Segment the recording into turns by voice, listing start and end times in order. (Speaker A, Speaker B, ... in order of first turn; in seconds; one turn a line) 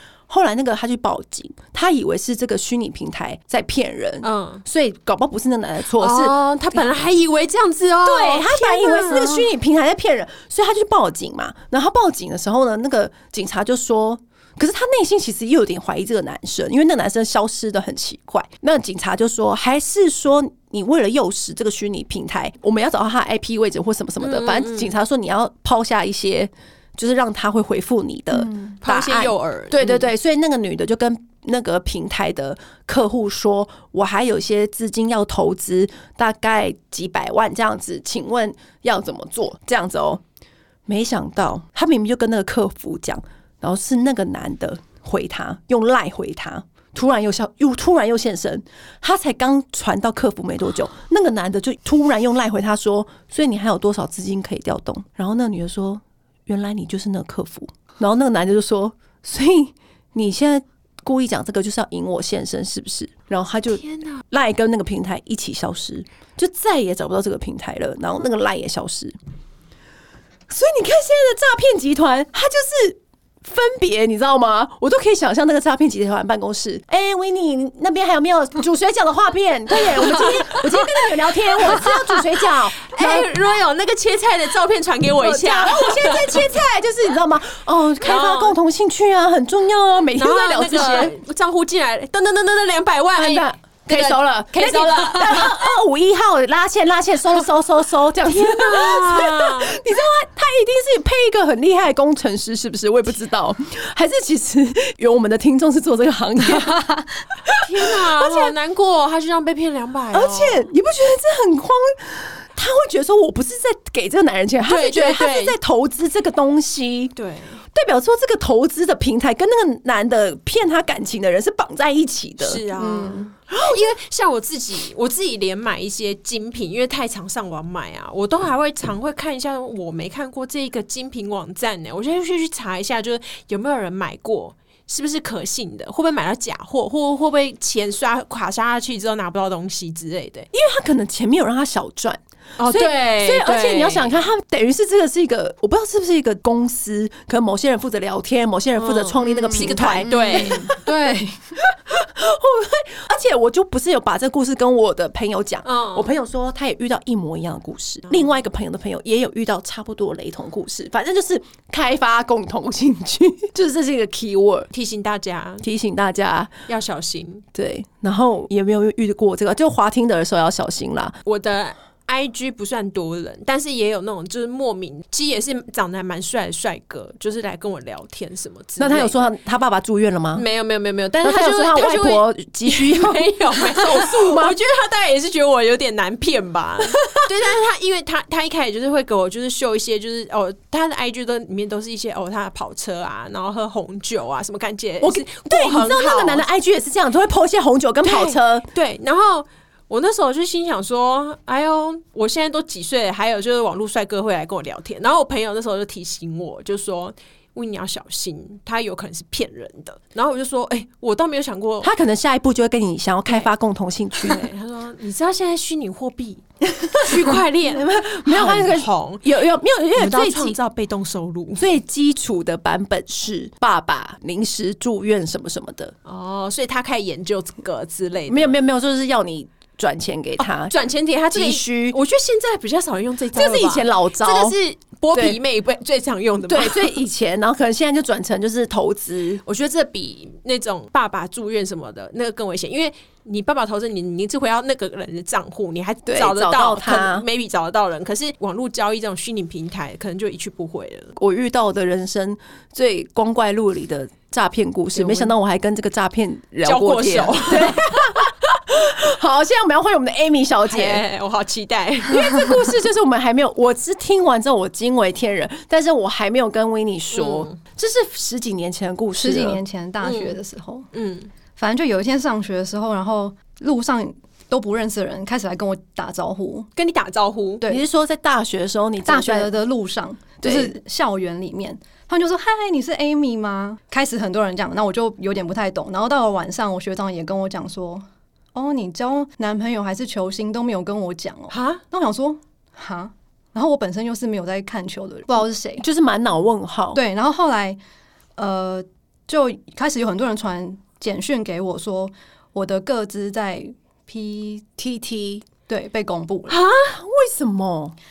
Speaker A: 0.3-6.3
Speaker B: 4.2-4.6
Speaker B: 6.0-9.5
Speaker A: 8.0-40.2
Speaker B: 24.2-24.9
Speaker C: 28.4-28.8
Speaker B: 28.8-30.1
Speaker A: 40.9-69.2
Speaker B: 63.7-64.2
Speaker A: 70.5-83.3
Speaker B: 80.0-81.1
Speaker B: 82.8-86.5
Speaker A: 85.2-91.2
Speaker B: 88.0-88.6
Speaker B: 90.2-95.7
Speaker A: 93.2-106.8
Speaker B: 98.2-99.8
Speaker A: 107.5-108.5
Speaker B: 107.5-110.6
Speaker A: 110.1-117.1
Speaker B: 114.7-115.6
Speaker B: 117.2-117.6
Speaker A: 117.7-122.6
Speaker B: 122.4-140.5
Speaker C: 122.8-123.3
Speaker A: 123.5-123.9
Speaker A: 140.5-150.8
Speaker B: 142.6-144.2
Speaker B: 148.8-150.7
Speaker C: 149.5-151.6
Speaker A: 151.7-164.7
Speaker B: 155.7-156.1
Speaker B: 164.7-165.7
Speaker A: 165.6-166.5
Speaker B: 166.7-167.4
Speaker A: 167.6-171.2
Speaker B: 171.2-179.3
Speaker A: 178.8-180.4
Speaker B: 180.3-196.4
Speaker A: 181.2-184.6
Speaker A: 195.0-198.7
Speaker B: 198.0-211.9
Speaker A: 211.8-214.5
Speaker B: 214.2-219.3
Speaker A: 216.7-220.6
Speaker B: 220.0-221.7
Speaker A: 221.6-225.9
Speaker B: 226.1-228.6
Speaker A: 228.3-230.8
Speaker B: 230.4-237.0
Speaker A: 231.3-232.0
Speaker A: 233.3-234.6
Speaker A: 235.1-235.4
Speaker A: 236.5-239.4
Speaker B: 239.5-251.1
Speaker A: 246.1-247.2
Speaker A: 251.2-261.0
Speaker B: 254.9-255.3
Speaker B: 256.6-258.2
Speaker B: 260.7-262.8
Speaker A: 262.1-269.6
Speaker B: 267.1-267.6
Speaker C: 269.2-270.9
Speaker B: 270.0-270.4
Speaker B: 270.9-271.3
Speaker C: 271.6-276.7
Speaker B: 276.8-277.6
Speaker A: 277.7-279.5
Speaker C: 279.1-295.9
Speaker A: 280.4-280.8
Speaker B: 291.5-291.8
Speaker A: 295.8-297.0
Speaker C: 296.9-297.8
Speaker C: 298.4-304.8
Speaker A: 304.8-305.4
Speaker C: 305.7-306.6
Speaker B: 306.5-306.9
Speaker A: 306.9-307.9